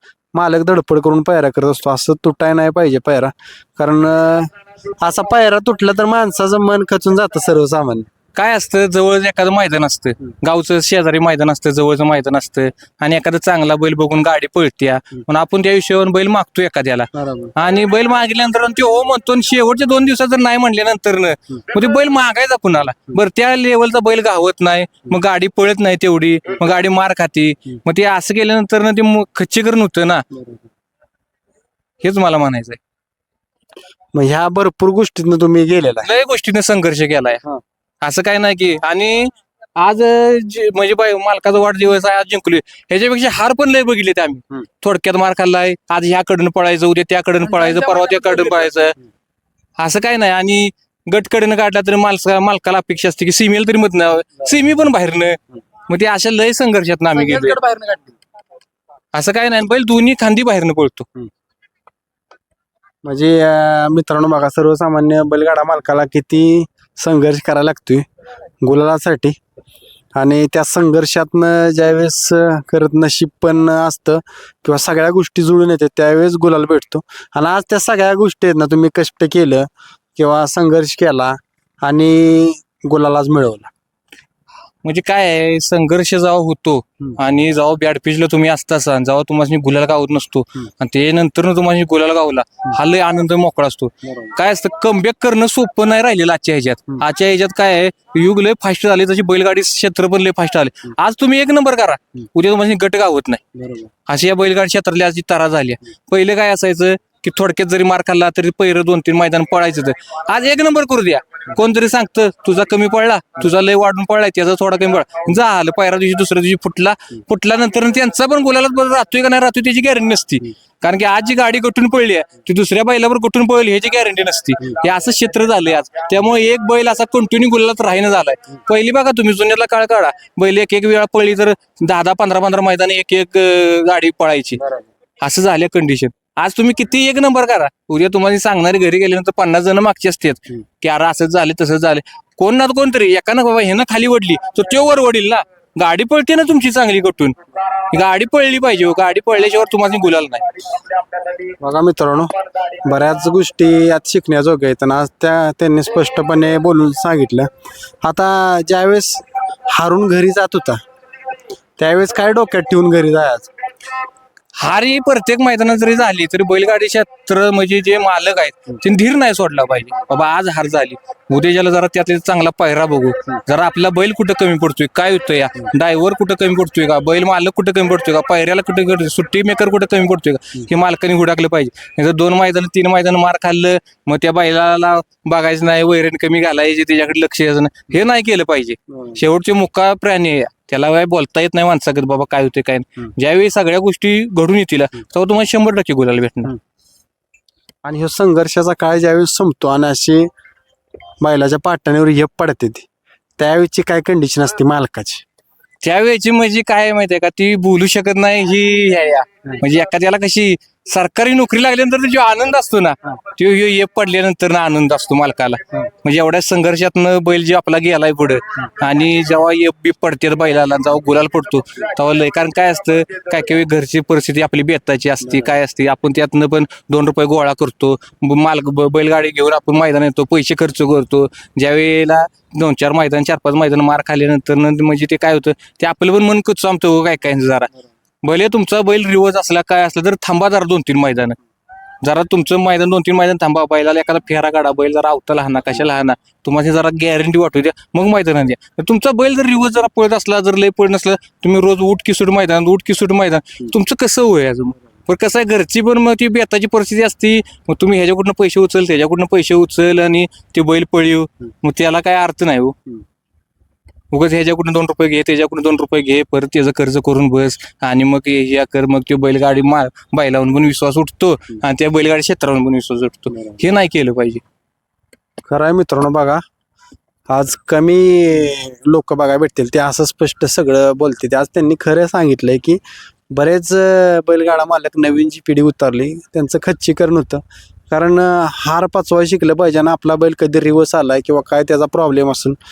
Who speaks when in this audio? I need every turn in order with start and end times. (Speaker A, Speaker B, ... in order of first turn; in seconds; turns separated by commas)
Speaker A: 0.3-8.1, Speaker B: 8.3-30.2, Speaker A: 17.1-17.5, Speaker A: 30.3-30.6, Speaker B: 32.0-32.8, Speaker A: 34.1-36.1, Speaker B: 36.0-37.4, Speaker B: 38.0-49.0, Speaker C: 47.4-48.6, Speaker B: 49.8-55.4, Speaker B: 55.9-57.6, Speaker C: 57.1-58.1, Speaker B: 59.1-61.1, Speaker A: 63.0-68.1, Speaker A: 68.6-69.4, Speaker A: 70.2-83.7, Speaker B: 84.8-103.4, Speaker A: 103.6-103.9, Speaker B: 104.1-134.6, Speaker B: 135.2-147.4, Speaker B: 147.9-150.5, Speaker A: 151.6-152.3, Speaker A: 152.8-157.5, Speaker A: 158.0-160.8, Speaker A: 161.8-163.5, Speaker B: 164.6-196.5, Speaker A: 197.8-200.3, Speaker A: 201.2-202.9, Speaker A: 203.4-205.2, Speaker B: 205.8-237.7, Speaker B: 238.2-241.4, Speaker B: 242.0-262.8, Speaker B: 264.1-274.4, Speaker A: 275.5-276.4, Speaker A: 277.3-292.6